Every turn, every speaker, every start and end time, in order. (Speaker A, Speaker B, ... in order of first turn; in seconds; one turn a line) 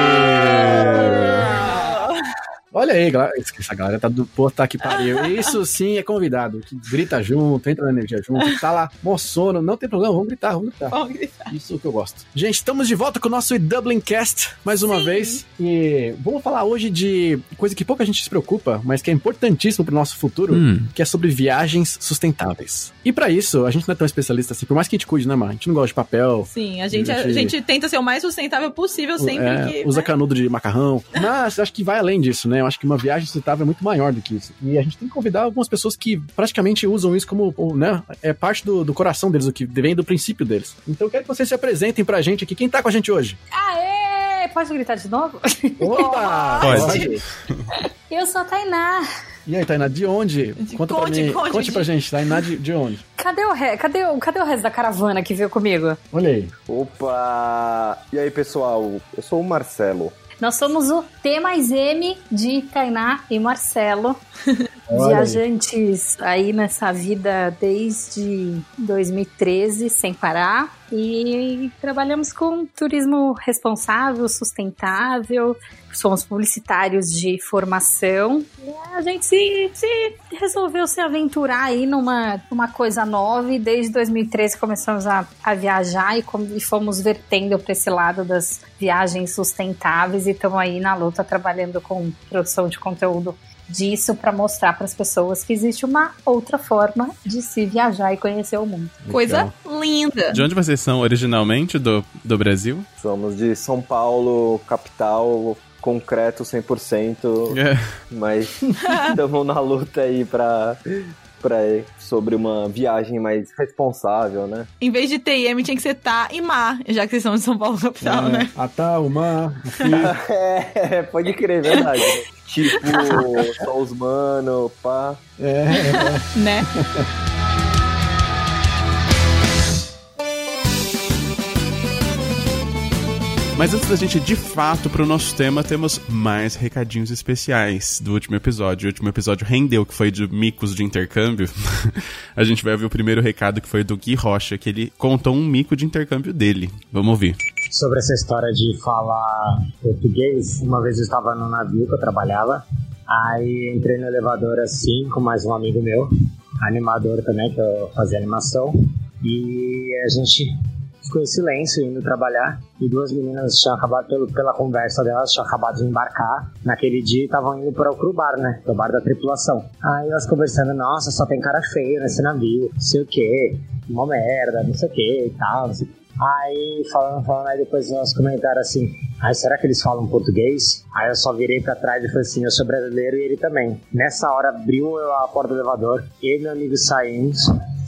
Speaker A: 0.2-1.5
Speaker B: 0.6-2.2
Speaker A: 2.7-11.0
Speaker B: 4.8-5.5
Speaker B: 10.9-11.5
Speaker A: 11.5-27.6
Speaker B: 14.8-15.4
Speaker C: 20.5-20.9
Speaker B: 26.5-30.1
Speaker A: 29.2-43.4
Speaker D: 43.5-46.2
Speaker A: 45.8-47.2
Speaker B: 46.1-47.0
Speaker C: 46.6-47.2
Speaker D: 48.1-49.1
Speaker A: 49.5-53.0
Speaker B: 50.6-52.4
Speaker D: 53.2-56.0
Speaker A: 56.1-56.5
Speaker E: 56.7-60.1
Speaker D: 60.4-64.2
Speaker A: 64.9-65.4
Speaker D: 64.9-99.0
Speaker A: 99.0-99.5
Speaker B: 99.1-100.5
Speaker C: 100.3-102.9
Speaker E: 103.0-107.6
Speaker C: 107.5-108.0
Speaker E: 108.1-110.8
Speaker E: 111.4-114.7
Speaker B: 114.8-118.5
Speaker A: 118.0-120.1
Speaker E: 119.9-125.2
Speaker B: 122.9-123.2
Speaker A: 125.4-127.1
Speaker B: 125.7-126.7
Speaker C: 133.6-147.4
Speaker F: 147.7-156.1
Speaker F: 156.6-160.5
Speaker F: 161.0-187.4